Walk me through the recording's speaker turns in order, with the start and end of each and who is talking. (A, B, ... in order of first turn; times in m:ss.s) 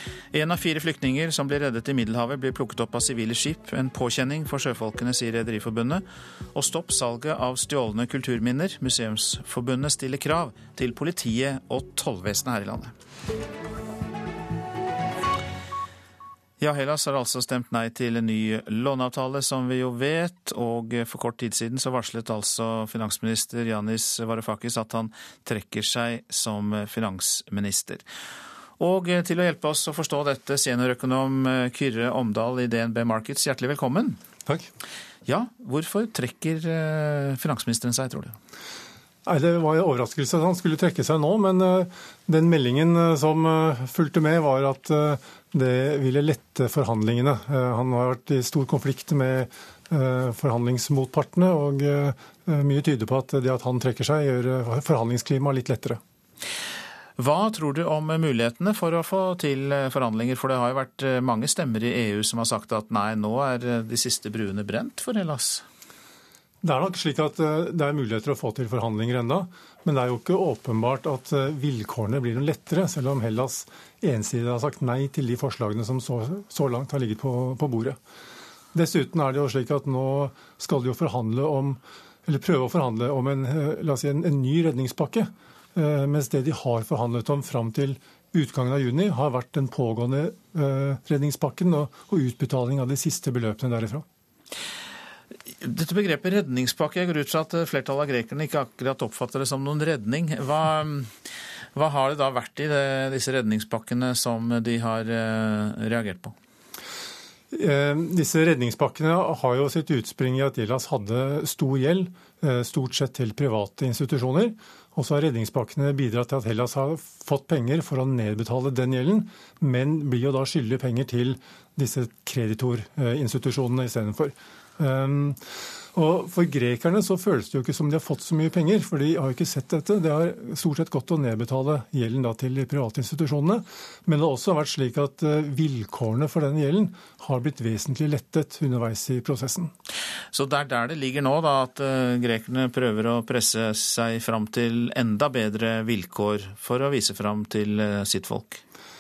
0:00.3-0:12.9 A
0:16.6-0:28.0 A
0:28.8-0:34.2 A
0:35.3-0:38.4 A
0:39.3-0:56.0 B
0:57.2-1:05.6 A
1:06.6-1:18.0 B
1:18.7-1:34.0 B
1:35.6-1:41.1 A
1:41.8-1:46.4 A
1:47.5-2:05.4 B
2:05.9-2:19.7 B
2:20.3-2:28.6 A